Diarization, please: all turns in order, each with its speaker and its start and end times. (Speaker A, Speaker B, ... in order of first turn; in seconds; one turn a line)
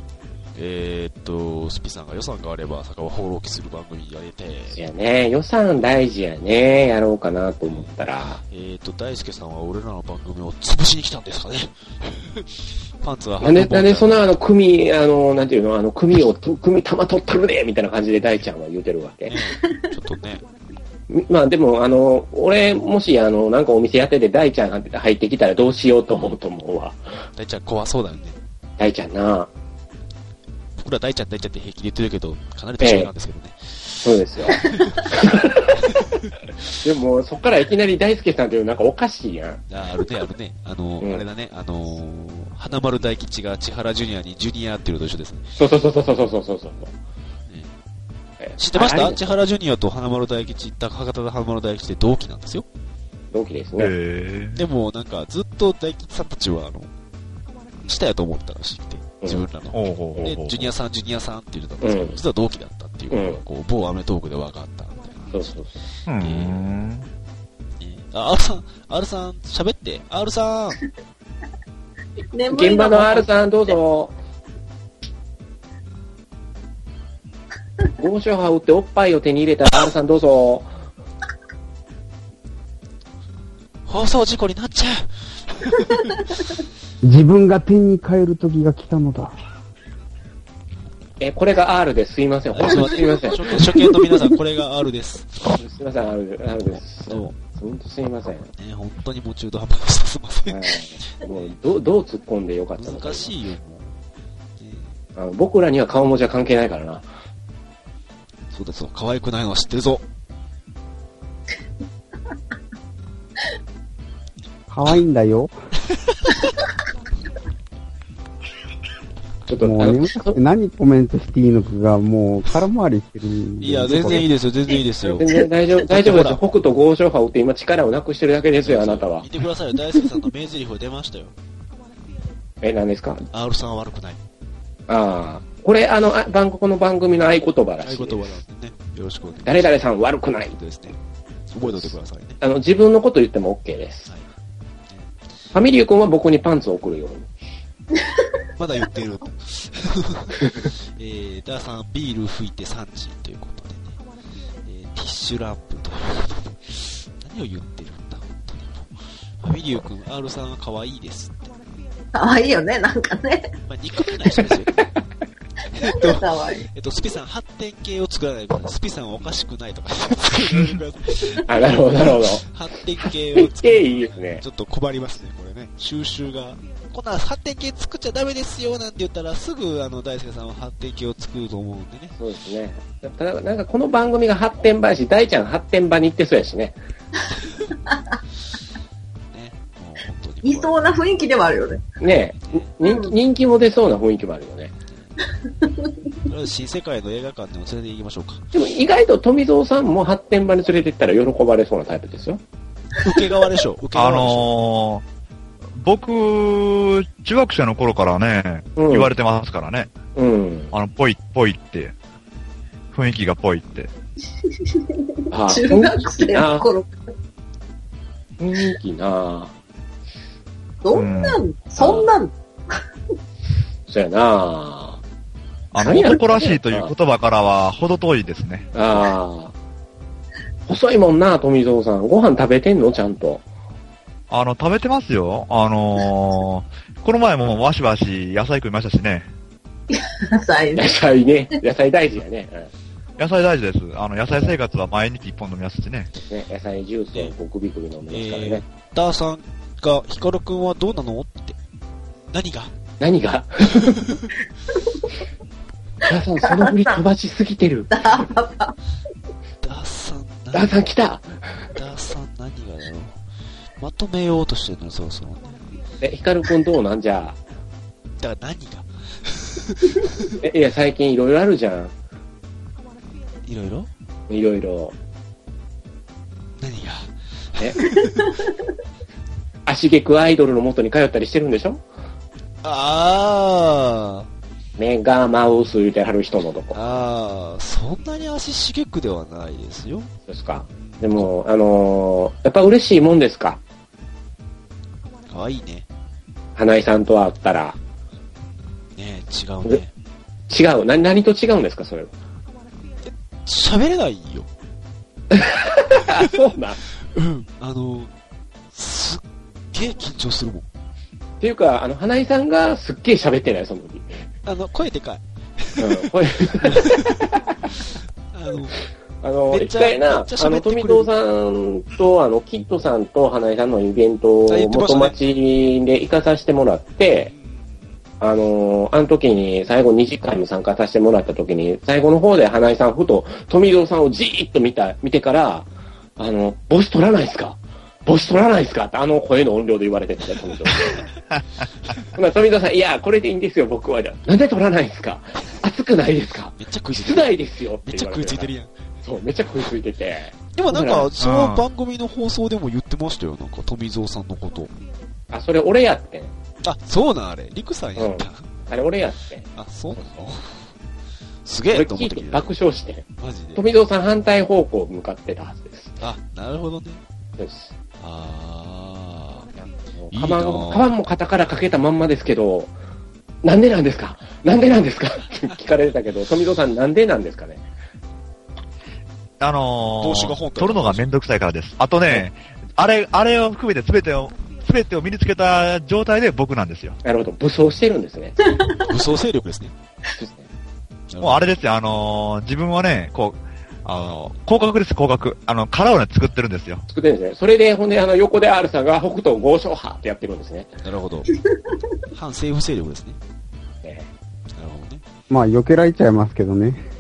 Speaker A: 0.6-4.8
Speaker B: 4.8-8.4
Speaker A: 7.7-7.9
Speaker A: 8.5-14.3
Speaker B: 13.4-19.3
Speaker A: 19.3-20.4
Speaker B: 21.1-27.0
Speaker A: 27.4-28.4
Speaker B: 28.8-29.5
Speaker A: 30.8-36.2
Speaker B: 32.8-33.1
Speaker B: 34.0-35.8
Speaker B: 36.8-39.6
Speaker A: 39.7-45.6
Speaker B: 45.6-46.9
Speaker A: 47.5-47.7
Speaker B: 48.4-49.2
Speaker A: 48.6-52.7
Speaker B: 53.3-53.9
Speaker C: 53.8-54.6
Speaker A: 54.5-56.9
Speaker A: 57.9-65.6
Speaker C: 59.7-60.7
Speaker B: 61.8-62.2
Speaker B: 63.1-63.4
Speaker B: 65.3-65.8
Speaker C: 66.1-67.1
Speaker A: 66.2-66.7
Speaker A: 67.8-70.8
Speaker D: 72.3-73.3
Speaker B: 72.5-74.2
Speaker B: 78.0-80.7
Speaker A: 83.9-86.2
Speaker E: 87.0-89.4
Speaker B: 91.2-93.4
Speaker A: 92.5-95.5
Speaker B: 95.5-98.5
Speaker A: 96.8-97.4
Speaker A: 98.5-101.5
Speaker B: 100.5-103.3
Speaker A: 102.8-104.0
Speaker A: 104.6-105.0
Speaker B: 105.2-107.1
Speaker A: 108.5-110.0
Speaker E: 114.7-115.5
Speaker A: 116.1-116.5
Speaker B: 119.5-120.4
Speaker E: 119.6-124.3
Speaker A: 123.6-125.3
Speaker B: 125.0-129.3
Speaker A: 125.8-126.4
Speaker A: 128.6-131.3
Speaker B: 132.6-133.2
Speaker A: 133.3-134.2
Speaker B: 134.9-138.4
Speaker A: 137.8-139.7
Speaker B: 139.4-140.6
Speaker A: 140.6-141.0
Speaker A: 141.5-142.4
Speaker B: 141.6-144.1
Speaker A: 144.9-145.1
Speaker B: 145.5-147.3
Speaker A: 148.6-154.0
Speaker A: 154.7-161.5
Speaker D: 162.1-163.5
Speaker A: 163.7-164.9
Speaker A: 165.7-182.2
Speaker D: 165.9-166.7
Speaker C: 170.5-170.8
Speaker B: 171.4-172.4
Speaker B: 173.4-174.4
Speaker B: 182.2-186.8
Speaker A: 189.3-191.0
Speaker D: 190.4-191.8
Speaker B: 192.0-194.7
Speaker A: 192.4-192.8
Speaker D: 192.8-193.1
Speaker A: 194.9-195.2
Speaker D: 195.6-195.9
Speaker A: 196.3-198.5
Speaker B: 198.5-202.4
Speaker A: 203.0-204.6
Speaker C: 203.9-205.1
Speaker C: 205.7-209.9
Speaker B: 208.8-209.1
Speaker B: 210.2-210.7
Speaker C: 210.7-211.9
Speaker C: 212.9-213.9
Speaker D: 214.6-216.9
Speaker B: 215.3-216.7
Speaker B: 218.4-219.5
Speaker D: 220.8-222.8
Speaker C: 220.9-221.4
Speaker B: 221.8-222.1
Speaker B: 223.9-225.0
Speaker C: 225.7-228.7
Speaker B: 225.8-226.9
Speaker B: 228.7-229.5
Speaker B: 230.7-233.4
Speaker C: 234.3-239.3
Speaker D: 239.9-241.0
Speaker B: 240.8-242.7
Speaker C: 243.2-246.1
Speaker B: 246.2-248.6
Speaker A: 248.1-251.6
Speaker A: 252.3-252.7
Speaker B: 253.0-254.0
Speaker A: 253.7-254.4
Speaker B: 256.1-258.2
Speaker D: 256.4-257.0
Speaker D: 257.9-258.7
Speaker A: 259.6-260.8
Speaker B: 260.5-261.7
Speaker A: 261.8-263.2
Speaker A: 263.8-265.8
Speaker B: 266.0-267.4
Speaker A: 268.2-270.4
Speaker B: 270.4-271.9
Speaker A: 273.4-273.9
Speaker B: 274.3-274.9
Speaker A: 276.6-278.4
Speaker B: 279.7-281.8
Speaker A: 282.6-284.3
Speaker B: 284.8-286.8
Speaker A: 286.7-290.1
Speaker B: 290.3-293.6
Speaker A: 290.7-291.3
Speaker A: 295.3-295.9
Speaker B: 296.6-297.8
Speaker A: 299.0-299.9
Speaker B: 300.5-302.1
Speaker A: 303.0-304.5
Speaker B: 305.3-306.8
Speaker A: 307.1-308.1
Speaker A: 308.7-310.7
Speaker B: 311.4-314.2
Speaker A: 314.4-318.8
Speaker B: 315.8-317.6
Speaker B: 319.2-327.3
Speaker A: 319.5-321.1
Speaker A: 324.5-325.2
Speaker A: 327.2-328.0
Speaker B: 328.2-341.1
Speaker B: 342.1-348.5
Speaker A: 346.6-348.7
Speaker B: 349.0-351.1
Speaker A: 350.5-354.7
Speaker C: 351.2-351.6
Speaker B: 355.3-356.3
Speaker A: 356.6-358.5
Speaker B: 358.0-359.4
Speaker A: 359.5-360.7
Speaker A: 361.4-362.5
Speaker B: 361.7-365.9
Speaker A: 363.2-363.7
Speaker A: 366.0-367.0
Speaker B: 367.4-367.7
Speaker A: 368.0-369.5
Speaker B: 369.6-372.8
Speaker A: 370.1-370.9
Speaker B: 373.4-377.6
Speaker C: 379.4-387.0
Speaker A: 380.0-381.1
Speaker B: 387.0-388.4
Speaker D: 388.5-388.8
Speaker A: 388.8-389.7
Speaker B: 390.1-390.5
Speaker A: 391.1-391.5
Speaker C: 391.2-396.9
Speaker B: 396.9-400.7
Speaker A: 400.8-401.3
Speaker A: 402.1-403.2
Speaker A: 404.5-405.0
Speaker E: 405.3-406.8